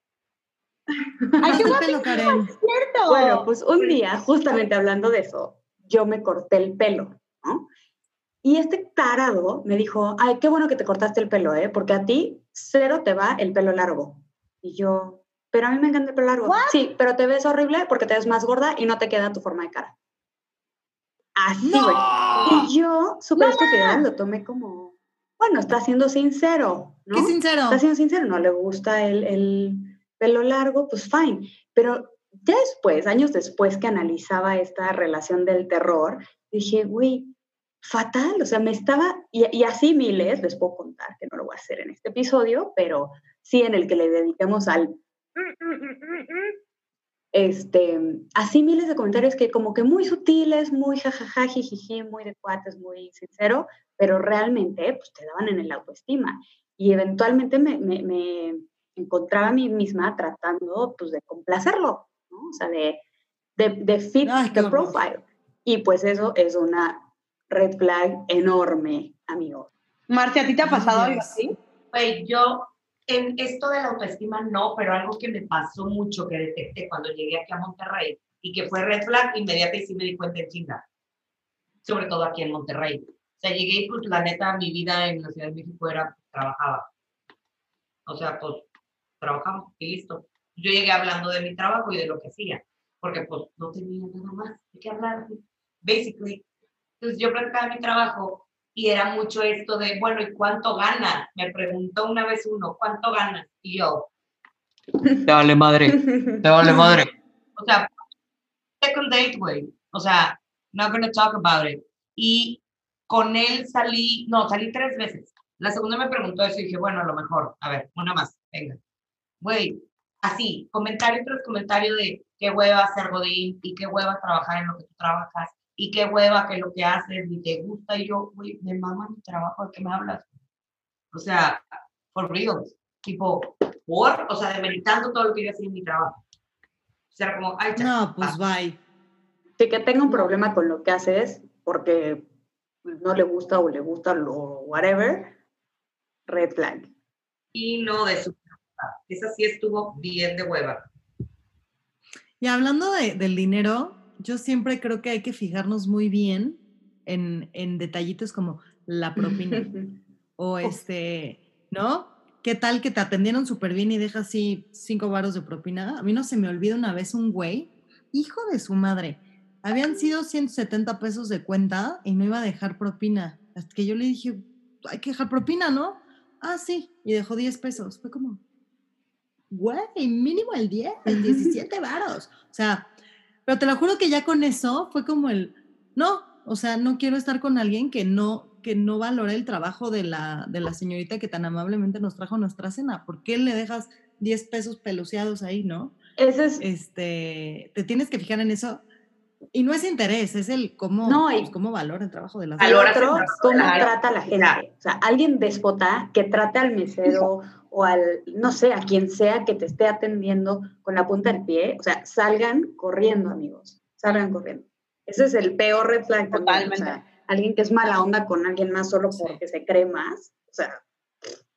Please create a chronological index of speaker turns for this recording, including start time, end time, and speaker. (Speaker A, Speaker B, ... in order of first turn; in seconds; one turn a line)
Speaker A: 1.3-1.8
Speaker B: 1.4-3.5
Speaker C: 1.5-2.5
Speaker A: 3.1-7.7
Speaker A: 8.4-19.9
Speaker B: 16.4-16.8
Speaker A: 21.4-46.5
Speaker C: 21.6-22.7
Speaker B: 23.4-24.1
Speaker C: 27.1-27.8
Speaker A: 47.3-63.0
Speaker A: 63.6-69.7
Speaker C: 64.2-65.0
Speaker B: 70.1-71.5
Speaker C: 70.6-71.5
Speaker D: 71.9-80.8
Speaker D: 81.8-86.9
Speaker D: 88.1-88.7
Speaker D: 89.2-96.4
Speaker D: 97.0-104.1
Speaker D: 105.2-107.9
Speaker A: 105.9-107.1
Speaker D: 108.8-118.8
Speaker D: 119.4-130.3
Speaker D: 131.1-136.2
Speaker D: 137.1-138.4
Speaker C: 137.8-138.8
Speaker A: 139.6-142.3
Speaker A: 142.9-145.3
Speaker A: 146.3-146.9
Speaker D: 147.5-150.8
Speaker C: 152.4-159.7
Speaker A: 159.2-160.0
Speaker C: 160.4-178.4
Speaker C: 179.5-182.9
Speaker A: 181.1-181.6
Speaker C: 183.5-195.9
Speaker A: 196.2-196.7
Speaker C: 196.6-198.8
Speaker C: 199.5-203.3
Speaker A: 201.0-201.5
Speaker D: 202.6-204.6
Speaker A: 202.6-220.8
Speaker B: 203.6-203.9
Speaker B: 216.3-217.0
Speaker C: 219.1-219.4